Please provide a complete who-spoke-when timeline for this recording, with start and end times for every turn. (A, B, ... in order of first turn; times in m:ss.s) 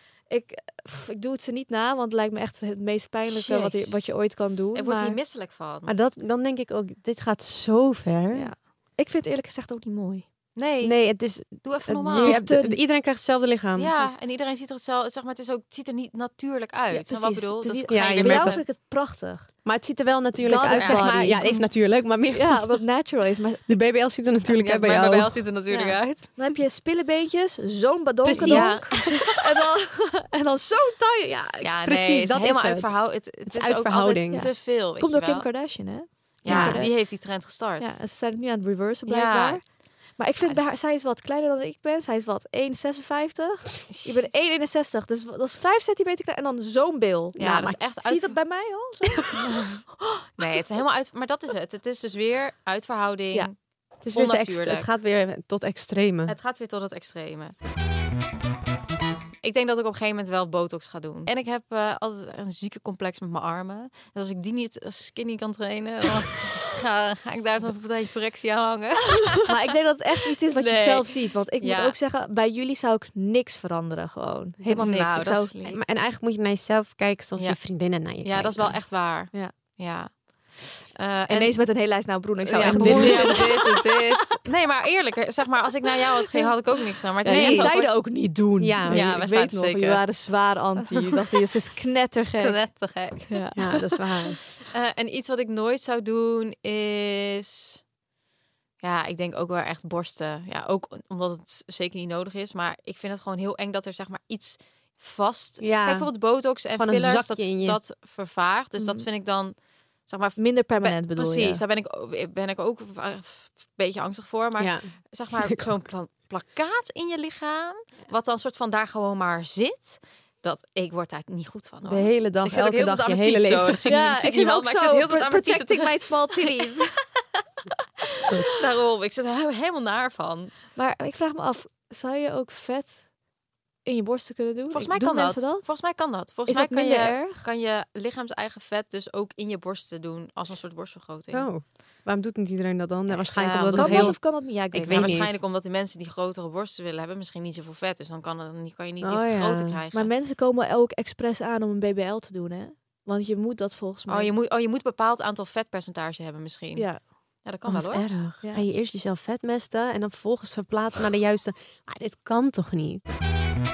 0:00.3-0:05.2 A
0:03.3-0:04.0 B
0:04.7-0:06.0 B
0:05.9-0:08.5 C
0:08.3-0:10.3 A
0:10.6-0:12.5 B
0:10.8-0:14.2 C
0:12.1-0:12.8 A
0:13.8-0:18.6 B
0:16.9-0:19.5 A
0:17.9-0:18.6 C
0:19.6-0:22.8 C
0:20.4-0:23.7 A
0:20.7-0:21.6 B
0:23.7-0:25.4 C
0:24.5-0:26.5 B
0:25.7-0:31.7 A
0:28.2-0:29.0 C
0:28.3-0:29.2 B
0:31.6-0:35.7 B
0:31.8-0:34.5 C
0:34.3-0:49.6 A
0:36.4-0:38.0 B
0:36.4-0:36.8 C
0:39.1-0:39.8 B
0:40.4-0:40.7 B
0:43.9-0:44.3 B
0:47.4-0:48.4 B
0:47.4-0:47.8 C
0:50.4-0:54.9 B
0:54.0-0:56.4 C
0:56.3-0:57.6 B
0:59.4-1:09.5 B
1:09.4-1:15.5 A
1:10.5-1:12.0 B
1:14.6-1:15.8 B
1:15.6-1:18.8 C
1:17.4-1:28.2 B
1:21.3-1:24.1 A
1:22.6-1:23.5 C
1:27.2-1:32.7 A
1:27.2-1:28.0 C
1:28.6-1:29.1 C
1:28.9-1:30.1 B
1:30.9-1:31.5 B
1:32.4-1:33.5 B
1:33.3-1:34.2 A
1:33.6-1:34.4 C
1:34.6-1:37.8 B
1:38.8-2:05.9 B
1:45.6-1:46.1 C
1:46.6-1:47.8 C
1:48.8-1:49.1 A
1:50.4-1:51.6 A
1:54.6-1:54.9 C
2:01.8-2:03.9 C
2:03.9-2:07.0 A
2:08.5-2:10.6 B
2:10.8-2:13.1 A
2:13.8-2:15.8 A
2:14.7-2:21.5 B
2:16.5-2:17.4 A
2:21.3-2:25.4 C
2:23.1-2:25.3 A
2:23.3-2:24.3 B
2:24.9-2:30.1 B
2:29.0-2:29.8 C
2:29.9-2:34.3 A
2:34.1-2:38.1 B
2:36.8-2:37.1 A
2:37.7-2:43.0 C